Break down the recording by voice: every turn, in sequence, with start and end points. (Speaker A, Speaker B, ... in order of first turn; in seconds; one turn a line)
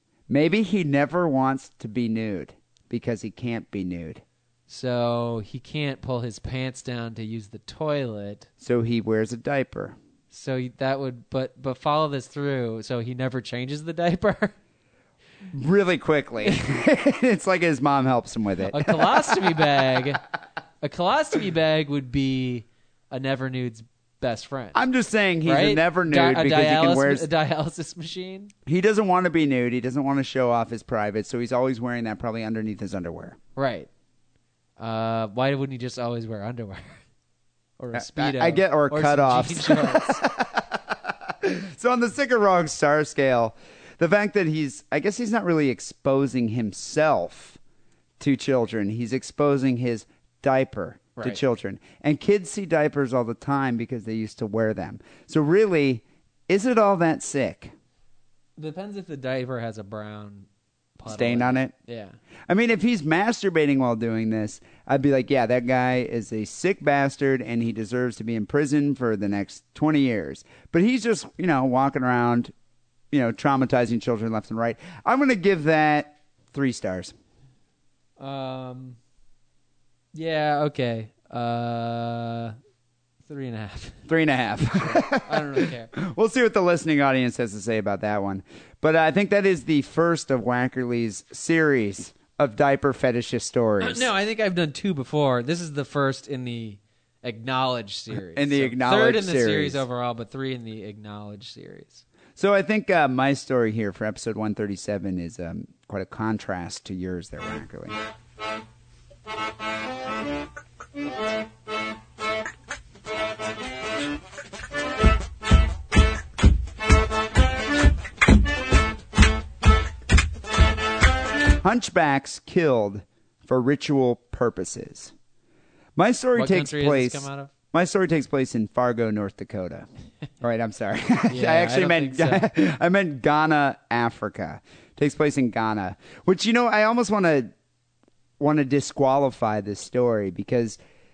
Speaker A: 0.3-4.2
Speaker B: 4.7-8.5
Speaker A: 8.6-9.9
Speaker B: 10.3-14.5
Speaker A: 15.5-19.6
Speaker B: 18.7-20.2
Speaker B: 20.8-24.8
Speaker A: 24.7-27.3
Speaker B: 25.4-28.5
Speaker A: 28.6-33.4
Speaker B: 33.5-33.9
Speaker B: 34.8-37.0
Speaker B: 37.8-40.2
Speaker A: 37.9-47.6
Speaker A: 48.2-57.7
Speaker B: 51.1-51.4
Speaker B: 58.6-60.5
Speaker B: 61.0-62.2
Speaker A: 61.1-61.7
Speaker A: 62.5-72.5
Speaker A: 73.1-77.1
Speaker B: 78.2-79.0
Speaker B: 80.1-82.5
Speaker B: 83.2-84.0
Speaker A: 84.1-94.1
Speaker B: 84.7-85.9
Speaker B: 93.8-102.0
Speaker A: 98.3-99.8
Speaker A: 102.3-108.0
Speaker A: 121.6-125.1
Speaker A: 126.0-129.8
Speaker B: 126.3-127.5
Speaker A: 130.4-137.5
Speaker B: 131.3-132.5
Speaker A: 138.4-140.8